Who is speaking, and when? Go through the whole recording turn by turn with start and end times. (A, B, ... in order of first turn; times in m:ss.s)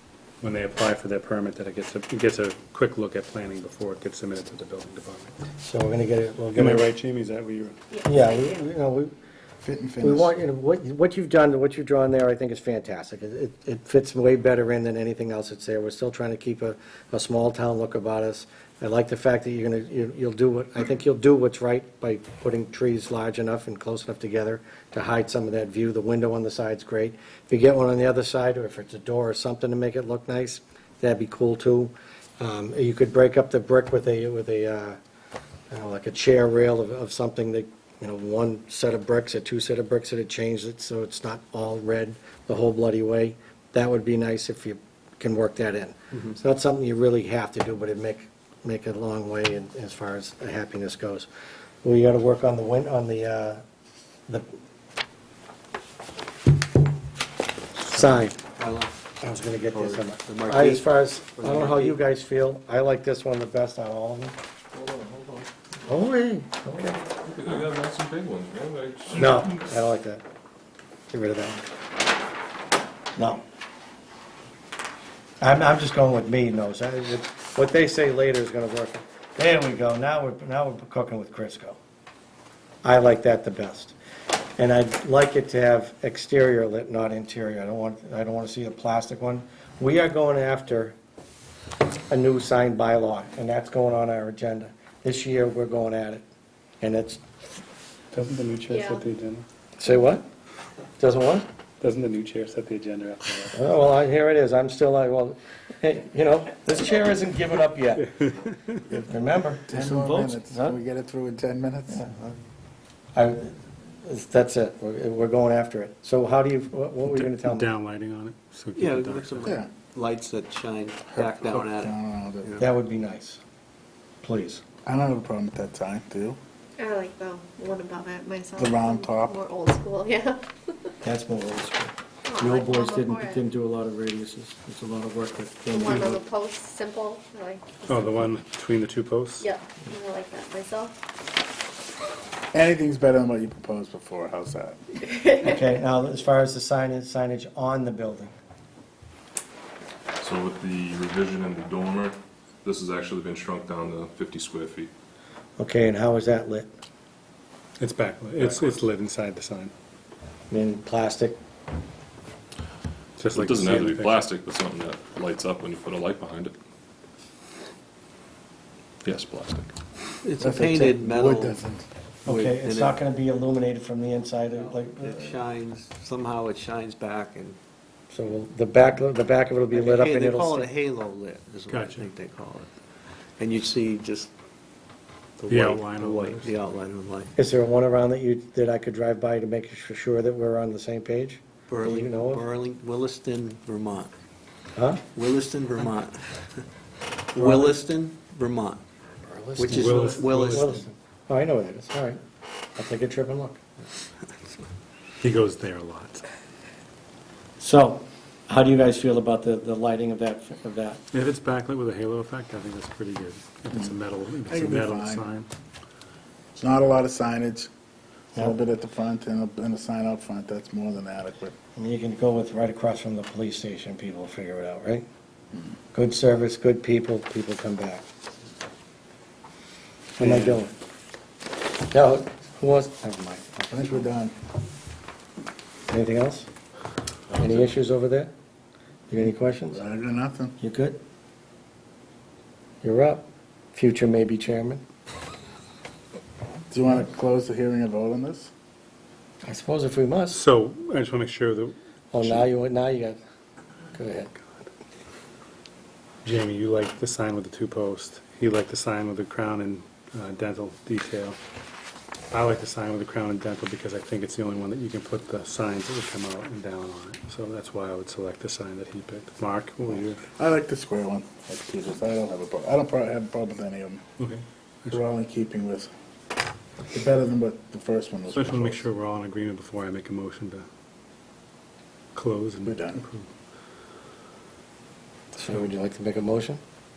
0:00.4-0:05.4 A
0:05.6-0:06.9 B
0:06.5-0:07.8 A
0:07.9-0:08.5 C
0:08.0-0:09.1 B
0:09.6-0:10.3 D
0:10.0-0:35.0 B
0:35.7-0:51.3 B
0:51.8-0:53.6 B
0:57.8-0:58.4 B
0:58.0-0:58.9 E
0:59.2-1:04.4 B
0:59.7-1:02.0 E
1:04.7-1:05.5 F
1:05.8-1:07.0 B
1:07.2-1:09.5 F
1:09.1-1:10.2 B
1:11.1-1:11.6 B
1:13.2-1:13.4 B
1:15.4-1:21.8 B
1:22.8-1:23.9 B
1:24.6-1:31.0 B
1:32.1-1:36.2 B
1:36.8-1:37.2 B
1:38.1-1:39.4 A
1:38.7-1:39.0 C
1:39.8-1:40.2 B
1:41.0-1:41.5 B
1:41.8-1:43.8 A
1:43.5-1:48.1 B
1:48.2-1:48.8 A
1:49.0-1:50.8 B
1:49.7-1:52.0 D
1:51.9-1:52.4 B
1:53.1-1:57.7 B
1:57.1-1:59.6 A
1:58.8-2:02.7 E
2:01.1-2:02.6 D
2:02.6-2:03.4 B
2:04.2-2:04.6 B
2:04.8-2:06.4 D
2:06.8-2:10.4 C
2:08.6-2:09.4 D
2:11.0-2:16.2 B
2:12.2-2:13.4 C
2:15.7-2:18.3 C
2:17.8-2:19.4 A
2:19.4-2:21.0 C
2:22.5-2:24.8 D
2:25.4-2:28.3 B
2:30.2-2:34.9 F
2:35.6-2:36.7 B
2:37.8-2:39.7 A
2:38.4-2:38.7 F
2:40.5-2:41.4 B
2:43.2-2:44.2 A
2:43.3-2:46.5 F
2:49.0-2:49.7 F
2:50.2-2:51.6 E
2:50.4-2:51.9 D
2:52.2-2:53.0 E
2:52.2-2:55.4 B
2:54.7-2:57.6 E
2:58.1-3:00.7 B
2:59.7-3:02.7 E
3:01.7-3:02.1 A
3:03.4-3:04.3 E
3:05.4-3:07.3 E
3:05.5-3:06.6 A
3:07.4-3:12.4 B
3:11.7-3:14.1 E
3:14.7-3:15.0 B
3:15.1-3:16.4 E
3:17.3-3:18.8 E
3:17.3-3:17.8 B
3:19.2-3:22.2 B
3:19.6-3:20.8 E
3:19.7-3:20.9 A
3:22.8-3:23.6 B
3:25.2-3:26.2 A
3:27.6-3:31.0 B
3:31.1-3:35.5 A
3:34.5-3:35.3 D
3:36.6-3:37.7 D
3:38.3-3:41.5 D
3:41.8-3:45.0 B
3:45.9-3:48.0 B
3:50.2-3:50.7 B
3:50.2-3:50.6 D
3:51.9-3:54.1 B
3:53.7-3:54.3 D
3:55.9-3:56.5 B
3:57.4-3:58.3 B
3:59.1-3:59.8 B
3:59.7-4:00.6 D
4:00.6-4:01.0 B
4:02.8-4:04.8 B
4:06.7-4:08.5 D
4:09.4-4:10.4 B
4:10.3-4:11.7 A
4:12.1-4:13.2 B
4:13.9-4:14.3 B
4:16.2-4:21.4 A
4:22.3-4:30.2 A
4:30.4-4:34.0 D
4:34.2-4:35.0 A
4:34.9-4:35.9 D
4:36.9-4:38.8 D
4:38.3-4:40.6 A
4:42.1-4:43.2 A
4:42.6-4:43.1 D
4:45.4-4:46.6 B